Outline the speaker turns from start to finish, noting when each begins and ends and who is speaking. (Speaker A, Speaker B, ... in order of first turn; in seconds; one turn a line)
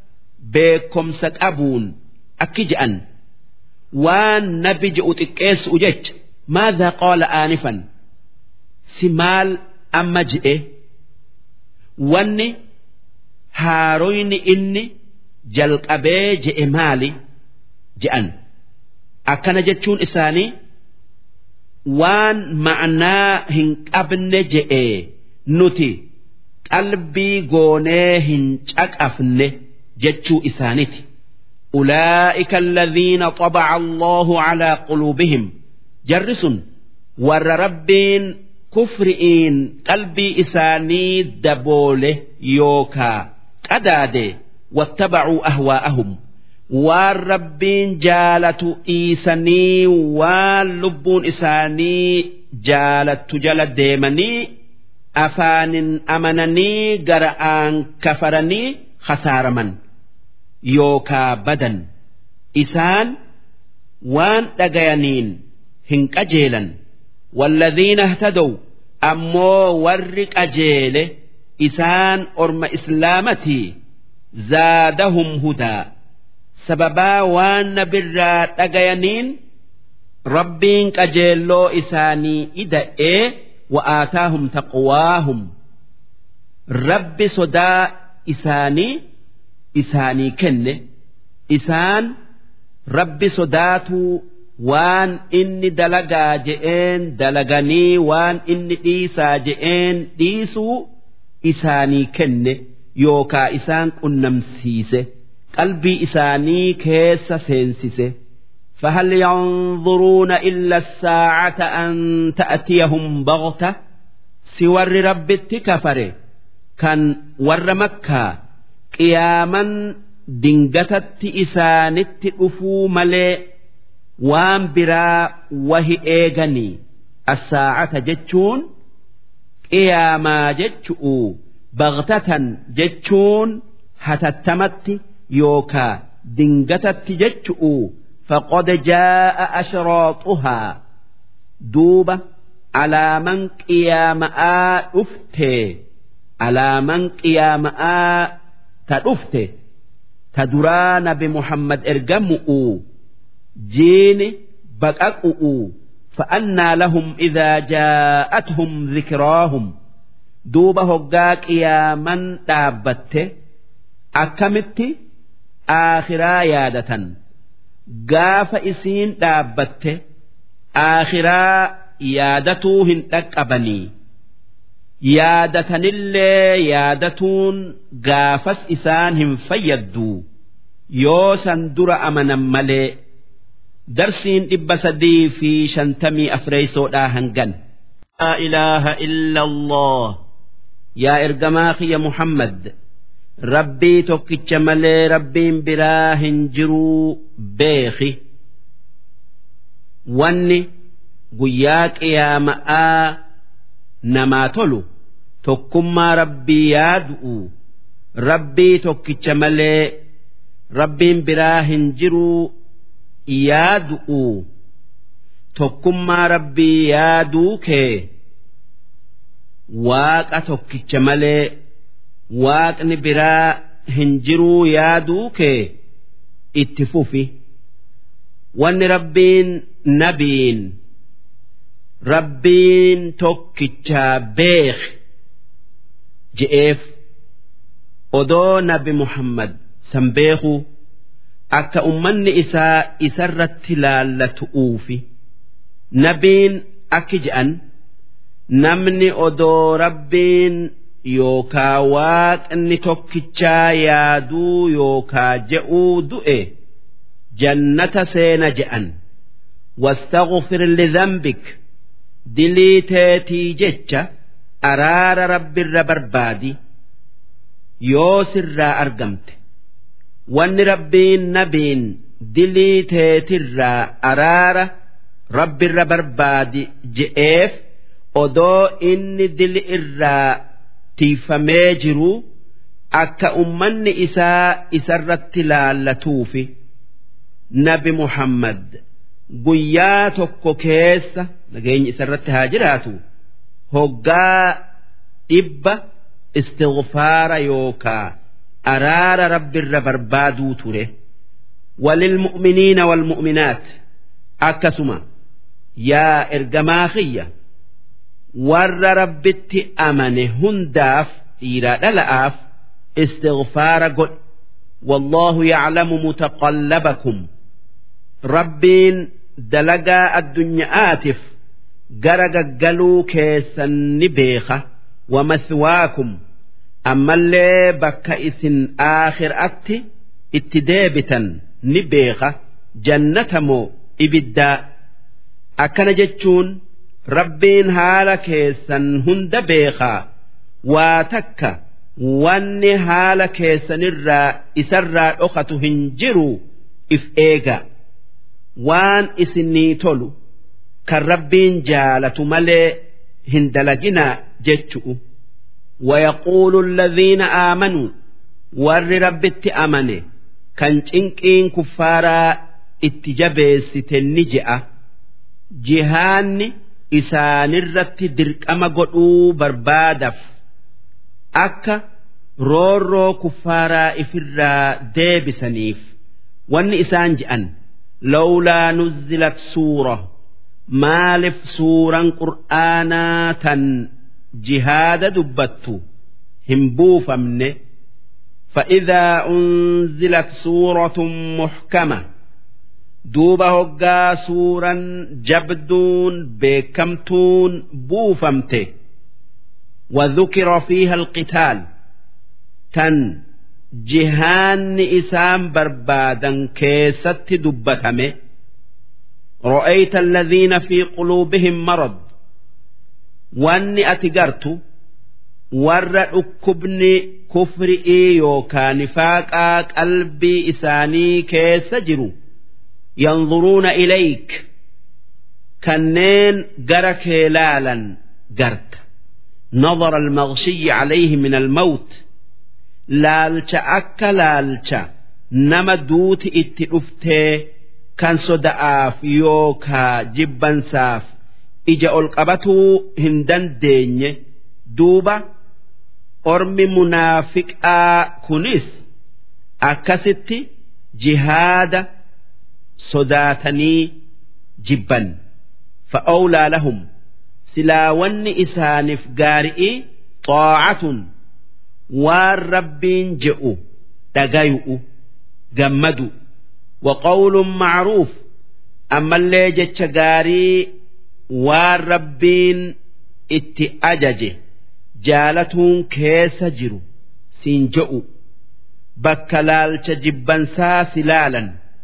Speaker A: 0.5-3.0
Speaker A: 4.0-7.8
Speaker A: 8.9-10.6
Speaker A: 12.0-12.5
Speaker A: 13.5-14.9
Speaker A: 15.5-17.1
Speaker A: 18.0-18.3
Speaker A: 19.3-20.5
Speaker A: 21.9-26.0
Speaker A: 26.7-31.0
Speaker A: 31.7-35.5
Speaker A: 36.1-36.6
Speaker A: 37.2-46.2
Speaker A: 46.7-54.5
Speaker A: 55.2-59.8
Speaker A: 60.7-61.8
Speaker A: 62.6-63.1
Speaker A: 64.0-66.7
Speaker A: 67.3-73.7
Speaker A: 74.4-75.9
Speaker A: 76.6-79.4
Speaker A: 80.3-85.5
Speaker A: 86.7-89.0
Speaker A: 89.8-90.8
Speaker A: 91.5-92.1
Speaker A: 92.9-100.9
Speaker A: 101.4-108.1
Speaker A: 108.8-113.8
Speaker A: 114.5-116.1
Speaker A: 116.8-118.3
Speaker A: 119.0-123.4
Speaker A: 124.2-128.7
Speaker A: 129.7-140.8
Speaker A: 141.7-142.2
Speaker A: 142.8-145.8
Speaker A: 146.4-148.3
Speaker A: 148.9-149.5
Speaker A: 150.3-152.8
Speaker A: 153.7-159.7
Speaker A: 160.5-163.3
Speaker A: 164.2-164.9
Speaker A: 165.7-167.1
Speaker A: 167.9-170.0
Speaker A: 170.8-173.9
Speaker A: 175.1-180.2
Speaker A: 181.0-183.0
Speaker A: 183.9-187.6
Speaker A: 188.2-190.2
Speaker A: 191.0-192.7
Speaker A: 193.5-198.2
Speaker A: 200.1-200.7
Speaker A: 201.3-203.2
Speaker A: 204.1-204.8
Speaker A: 205.4-207.5
Speaker A: 208.2-209.9
Speaker A: 210.7-212.5
Speaker A: 213.3-214.4
Speaker A: 215.6-218.1
Speaker A: 219.7-221.5
Speaker A: 222.3-225.7
Speaker A: 226.6-227.3
Speaker A: 228.6-230.8
Speaker A: 232.1-234.9
Speaker A: 236.3-236.9
Speaker A: 238.1-240.7
Speaker A: 241.5-245.0
Speaker A: 246.0-247.6
Speaker A: 248.6-256.5
Speaker A: 257.4-258.9
Speaker A: 259.8-261.6
Speaker A: 262.3-264.1
Speaker A: 264.6-266.6
Speaker A: 267.8-269.4
Speaker A: 270.3-274.7
Speaker A: 275.3-277.6
Speaker A: 278.1-280.4
Speaker A: 281.0-282.2
Speaker A: 282.9-286.5
Speaker A: 287.5-288.8
Speaker A: 289.4-293.0
Speaker A: 293.7-294.6
Speaker A: 295.3-295.8
Speaker A: 296.4-298.1
Speaker A: 298.7-300.9
Speaker A: 301.8-303.7
Speaker A: 304.4-305.0
Speaker A: 305.8-307.3
Speaker A: 308.4-312.4
Speaker A: 313.0-314.1
Speaker A: 314.8-317.2
Speaker A: 318.3-321.2
Speaker A: 322.0-326.1
Speaker A: 326.9-329.8
Speaker A: 330.3-334.6
Speaker A: 335.6-336.6
Speaker A: 337.1-340.0
Speaker A: 340.7-346.4
Speaker A: 346.9-347.6
Speaker A: 348.6-350.1
Speaker A: 350.9-352.8
Speaker A: 353.3-355.0
Speaker A: 355.8-357.9
Speaker A: 358.6-360.0
Speaker A: 360.6-364.6
Speaker A: 365.6-370.2
Speaker A: 371.4-371.8
Speaker A: 372.4-375.8
Speaker A: 376.5-377.5
Speaker A: 378.1-380.1
Speaker A: 380.7-383.9
Speaker A: 384.4-385.8
Speaker A: 386.5-387.5
Speaker A: 388.5-392.0
Speaker A: 393.1-398.7
Speaker A: 399.9-401.6
Speaker A: 402.7-403.2
Speaker A: 403.8-408.1
Speaker A: 409.4-412.0
Speaker A: 413.4-414.6
Speaker A: 415.5-422.1
Speaker A: 423.0-424.4
Speaker A: 425.6-428.8
Speaker A: 429.6-432.0
Speaker A: 433.0-441.1
Speaker A: 441.7-444.1
Speaker A: 444.7-445.2
Speaker A: 446.3-448.9
Speaker A: 449.6-450.4
Speaker A: 451.0-451.9
Speaker A: 452.8-453.9
Speaker A: 454.6-455.1
Speaker A: 455.9-456.8
Speaker A: 457.5-461.0
Speaker A: 461.9-463.6
Speaker A: 464.1-464.8
Speaker A: 465.6-466.1
Speaker A: 466.8-468.2
Speaker A: 468.9-470.7
Speaker A: 471.3-472.7
Speaker A: 473.3-474.4
Speaker A: 475.0-476.8
Speaker A: 477.4-478.1
Speaker A: 479.0-481.5